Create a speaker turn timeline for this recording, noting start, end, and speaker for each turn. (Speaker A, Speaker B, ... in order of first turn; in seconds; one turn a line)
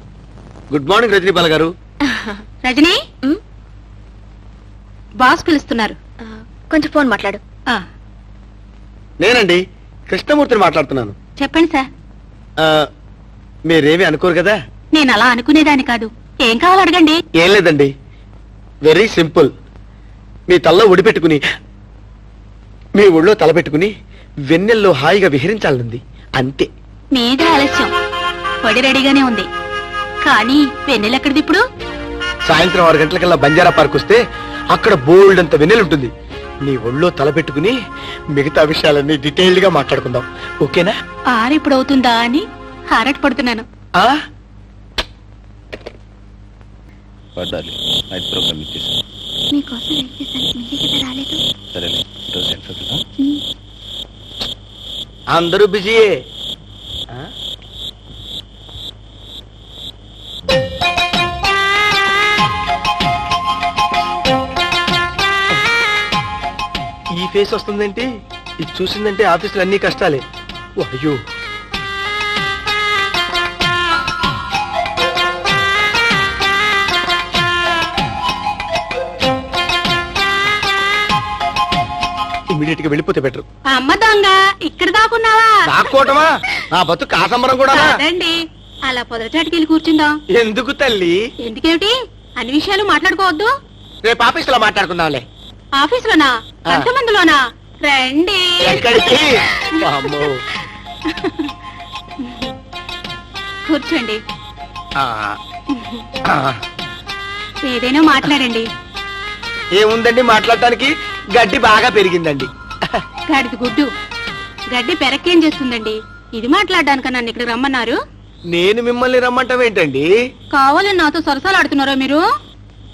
Speaker A: 0.7-1.7
Speaker B: 2.6-3.0
Speaker B: 5.2-6.0
Speaker C: 6.2-7.4
Speaker A: 9.2-11.2
Speaker B: 11.4-11.8
Speaker A: 13.7-14.6
Speaker B: 14.9-17.2
Speaker A: 17.4-17.9
Speaker A: 18.8-19.5
Speaker A: 20.5-21.4
Speaker A: 23.0-23.9
Speaker A: 24.5-26.7
Speaker B: 27.1-27.9
Speaker B: 28.6-29.4
Speaker B: 30.2-31.6
Speaker A: 32.4-34.2
Speaker A: 34.7-36.1
Speaker A: 36.6-37.8
Speaker A: 38.3-40.9
Speaker B: 41.3-43.6
Speaker D: 47.4-49.0
Speaker C: 49.5-51.4
Speaker D: 51.7-53.0
Speaker A: 55.3-56.1
Speaker A: 67.1-68.1
Speaker A: 68.6-70.2
Speaker A: 70.8-71.2
Speaker A: 82.5-83.4
Speaker B: 83.7-85.6
Speaker A: 85.7-88.0
Speaker B: 87.7-88.3
Speaker B: 88.8-90.1
Speaker A: 90.3-91.2
Speaker B: 91.4-93.5
Speaker A: 94.0-95.2
Speaker B: 95.8-98.9
Speaker A: 98.6-100.4
Speaker B: 101.0-101.5
Speaker B: 102.2-102.5
Speaker B: 103.7-104.2
Speaker A: 105.0-105.4
Speaker B: 105.7-106.0
Speaker A: 106.3-106.6
Speaker B: 107.6-108.7
Speaker A: 109.8-112.5
Speaker B: 113.3-113.9
Speaker B: 114.7-118.0
Speaker A: 118.5-120.1
Speaker B: 120.5-122.2